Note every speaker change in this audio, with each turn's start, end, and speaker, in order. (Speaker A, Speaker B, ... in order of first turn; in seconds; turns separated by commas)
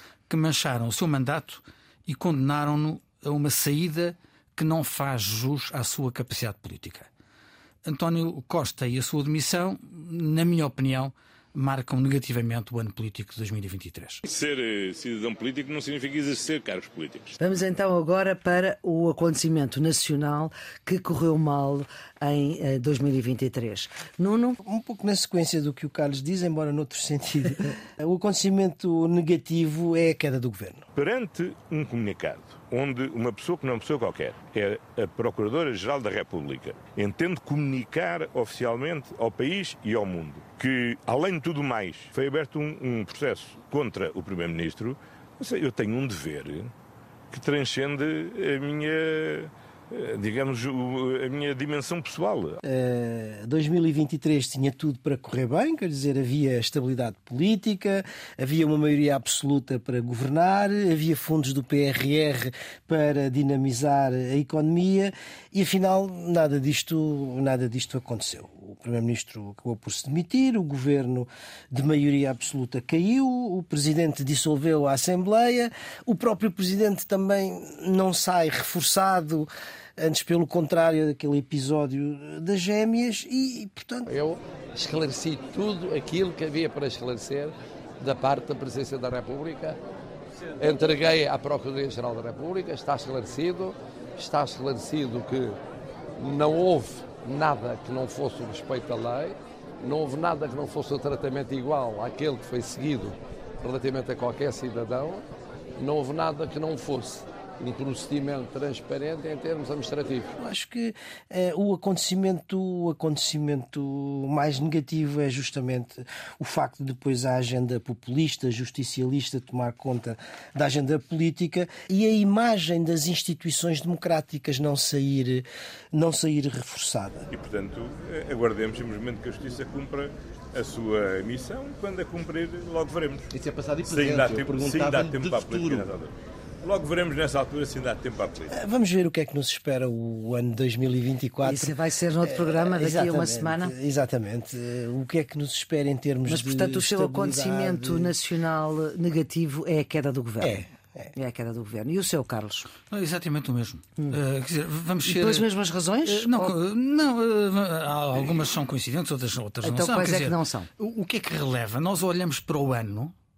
Speaker A: 0.3-7.1, Speaker A: 7.8-14.2, Speaker B: 14.2-17.3, Speaker C: 17.4-24.6, Speaker D: 24.6-30.9, Speaker B: 30.9-46.7, Speaker B: 47.3-52.6, Speaker D: 52.6-84.1, Speaker E: 84.1-89.8, Speaker E: 90.6-95.6, Speaker E: 96.2-105.2, Speaker E: 105.8-110.3, Speaker D: 110.4-127.3, Speaker B: 127.3-133.3, Speaker F: 133.3-135.9, Speaker B: 133.8-138.5, Speaker D: 138.5-148.1, Speaker C: 141.4-143.7, Speaker C: 146.3-150.6, Speaker D: 150.4-151.1, Speaker C: 151.1-152.7, Speaker A: 152.9-155.4, Speaker C: 155.0-156.5, Speaker A: 156.0-163.1, Speaker C: 159.6-160.7